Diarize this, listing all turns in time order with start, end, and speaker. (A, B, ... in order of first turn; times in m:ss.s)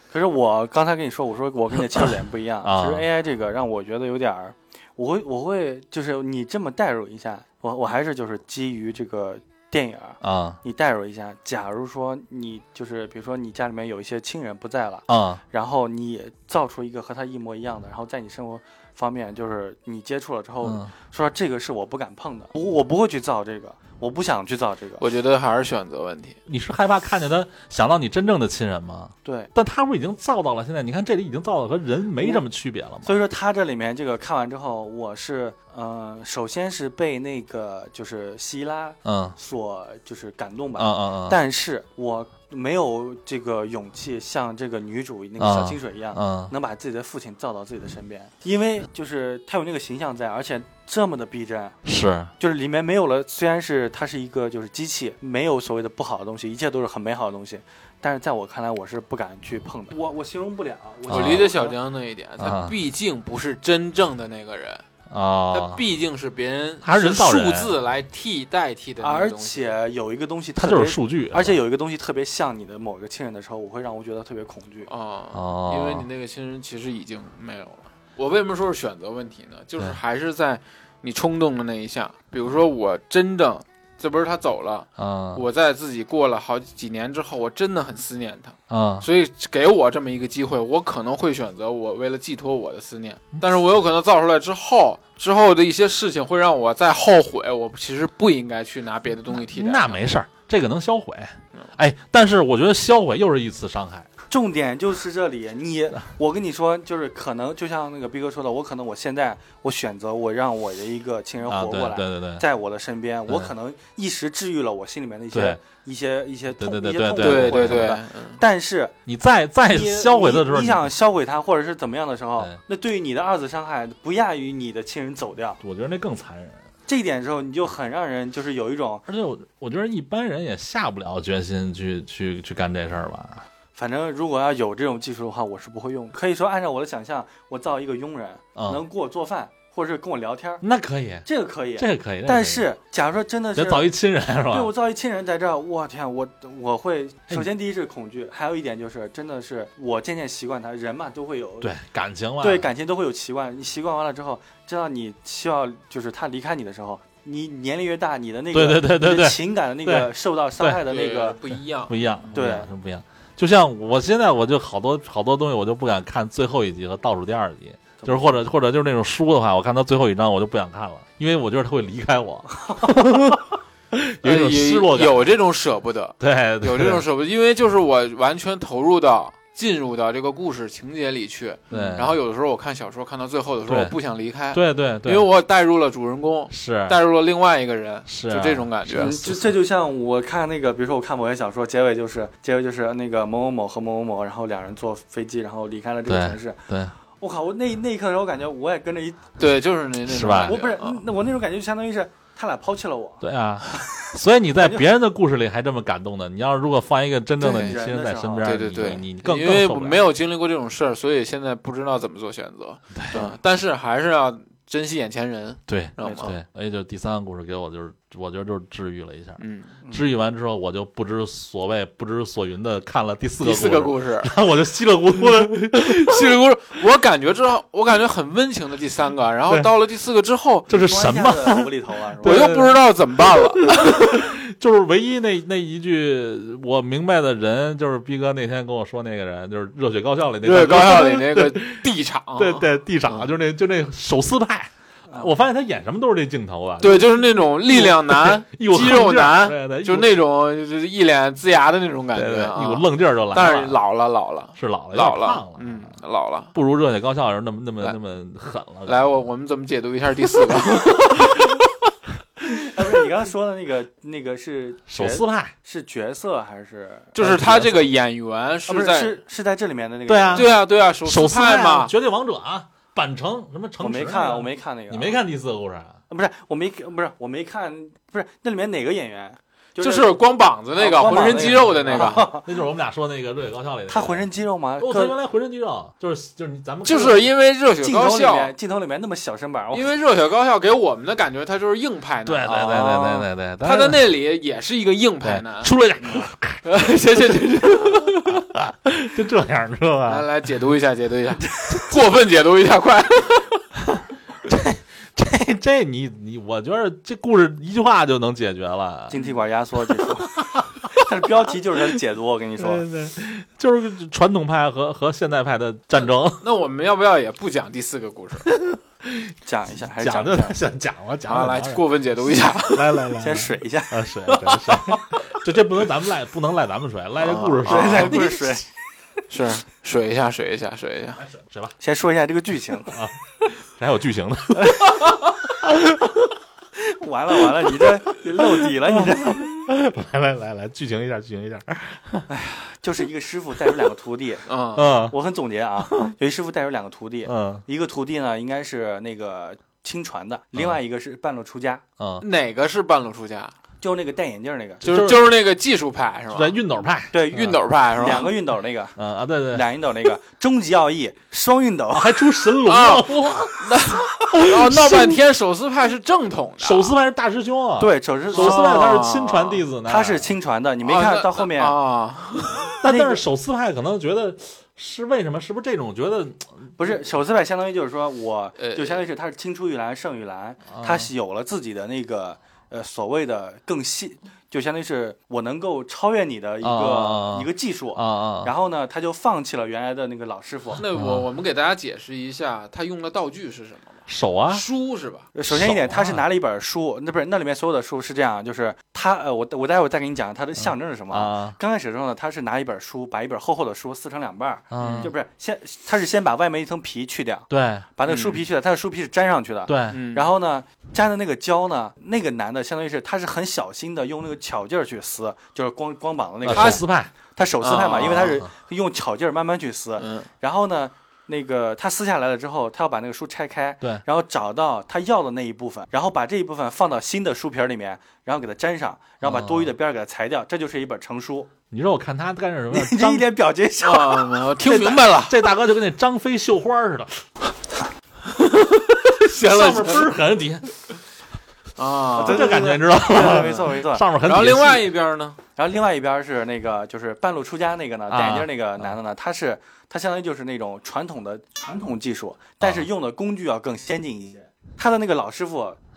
0:00.1-0:25.0 A
0:02.6-0:03.0 B
0:10.2-0:10.6 B
0:15.1-0:15.4 B
0:20.6-0:20.9 B
0:25.0-0:26.4 C
0:26.5-0:33.2 B
0:29.2-0:29.5 A
0:33.0-0:51.8 A
0:39.0-0:39.4 B
0:40.8-0:41.4 B
0:45.4-0:46.5 B
0:51.8-0:52.3 B
0:52.4-1:01.8 A
1:01.1-1:04.8 C
1:01.1-1:01.5 B
1:02.4-1:02.8 B
1:05.1-1:05.8 B
1:05.5-1:09.7 C
1:06.8-1:07.8 B
1:09.0-1:14.9 A
1:10.6-1:11.6 B
1:14.9-1:40.0 C
1:15.3-1:16.1 B
1:25.0-1:25.4 B
1:28.7-1:29.1 B
1:39.3-1:44.1 B
1:44.3-1:58.9 A
1:51.5-1:52.4 B
1:55.3-1:55.6 B
1:56.6-1:58.0 B
1:57.2-1:58.4 C
1:59.0-2:00.9 B
1:59.7-2:05.6 A
2:05.6-2:06.6 B
2:06.9-2:09.0 A
2:09.1-2:13.4 B
2:13.7-2:20.6 A
2:18.6-2:18.8 B
2:20.6-2:22.7 B
2:21.2-2:23.9 A
2:23.5-2:24.7 B
2:24.5-2:31.7 A
2:31.6-2:32.7 B
2:32.4-2:41.4 A
2:38.5-2:40.8 B
2:40.8-2:42.0 C
2:41.9-2:55.3 B
2:42.3-2:42.7 A
2:48.0-2:48.4 A
2:54.2-3:09.2 C
2:56.2-2:57.0 B
3:01.7-3:02.0 A
3:01.7-3:02.2 B
3:03.6-3:03.9 B
3:04.5-3:05.3 B
3:06.5-3:07.0 B
3:08.1-3:09.5 B
3:08.9-3:16.6 A
3:16.1-3:16.9 B
3:17.2-3:19.3 A
3:19.4-3:21.0 C
3:20.1-3:20.6 B
3:20.4-3:23.2 A
3:23.2-3:30.1 B
3:24.6-3:24.8 A
3:27.4-3:29.0 A
3:27.4-3:27.8 C
3:28.4-3:36.3 C
3:32.9-3:33.2 B
3:33.1-3:33.4 A
3:35.7-3:46.2 B
3:36.0-3:36.3 A
3:39.4-3:39.8 C
3:43.4-3:44.3 C
3:45.5-3:50.7 C
3:50.7-3:51.7 B
3:50.7-3:52.6 A
3:52.2-4:10.2 B
3:52.2-3:54.1 C
4:00.4-4:03.3 C
4:06.8-4:16.5 C
4:12.1-4:13.8 B
4:14.6-4:15.9 B
4:16.5-4:19.2 B
4:18.8-4:21.6 C
4:22.6-4:27.1 A
4:24.9-4:25.5 B
4:27.1-4:29.2 C
4:27.2-4:27.8 B
4:28.7-4:30.5 A
4:30.1-4:36.0 B
4:30.3-4:31.9 C
4:33.8-4:35.2 A
4:36.1-4:40.2 A
4:39.8-4:42.3 C
4:40.8-4:42.5 A
4:41.0-4:47.2 B
4:43.9-4:45.2 A
4:46.8-4:48.5 C
4:47.8-4:49.9 A
4:49.7-4:52.7 C
4:52.2-4:54.1 B
4:52.4-4:53.3 A
4:53.6-4:55.7 C
4:55.2-4:56.6 B
4:56.0-4:56.3 A
4:56.6-4:58.4 C
4:58.2-5:00.3 B
5:00.0-5:03.6 C
5:03.9-5:09.2 B
5:09.1-5:10.4 A
5:09.9-5:11.0 B
5:10.9-5:12.8 A
5:12.6-5:16.4 B
5:16.3-5:18.5 C
5:18.4-5:19.3 B
5:19.4-5:20.6 A
5:20.0-5:21.9 B
5:21.2-5:23.0 C
5:22.6-5:28.2 B
5:23.2-5:24.0 A
5:24.7-5:24.9 C
5:27.2-5:28.6 C
5:27.6-5:28.6 A
5:29.3-5:31.2 C
5:31.2-5:31.8 B
5:31.8-5:32.9 A
5:32.9-5:36.2 B
5:36.8-5:39.7 A
5:37.8-5:42.3 B
5:42.3-5:44.4 A
5:44.5-5:44.9 C
5:44.7-5:45.1 B
5:45.1-5:51.8 A
5:47.2-5:47.6 B
5:52.0-5:52.2 B
5:52.2-5:53.5 C
5:53.8-5:55.1 A
5:54.8-5:56.6 C
5:54.8-5:55.3 B
5:56.3-5:57.5 B
5:57.1-5:59.0 A
5:57.3-5:58.3 C
5:59.0-5:59.7 B
5:59.5-6:02.2 A
6:01.9-6:05.2 B
6:02.6-6:06.9 C
6:06.6-6:10.3 B
6:07.8-6:08.7 A
6:08.3-6:09.6 C
6:09.9-6:11.8 A
6:10.8-6:12.7 C
6:12.8-6:16.7 B
6:12.8-6:13.2 A
6:16.8-6:30.8 A
6:18.6-6:19.0 C
6:20.7-6:21.1 B
6:26.6-6:28.5 B
6:30.8-6:31.2 B
6:30.8-6:35.3 C
6:34.1-6:34.6 B
6:35.3-7:11.5 A
6:35.5-6:36.2 B
6:40.6-6:41.6 B
6:44.7-6:45.1 B
6:44.8-6:45.1 C
6:47.5-6:47.9 B
6:48.1-6:48.4 C
6:49.7-6:50.0 B
6:49.9-6:50.3 C
6:56.4-6:57.1 B
6:56.5-6:56.8 C
6:57.6-6:58.3 C
6:57.9-6:58.5 B
7:00.0-7:00.3 C
7:09.2-7:09.7 B
7:11.7-7:13.2 B
7:12.7-7:15.0 A
7:13.8-7:15.4 C
7:15.1-7:17.5 B
7:19.0-7:20.7 B
7:19.2-7:20.1 C
7:21.8-7:22.6 C
7:22.2-7:24.0 A
7:22.2-7:24.9 B
7:23.1-7:23.7 C
7:24.2-7:25.4 C
7:25.6-7:35.8 A
7:28.1-7:28.9 B
7:32.6-7:32.9 B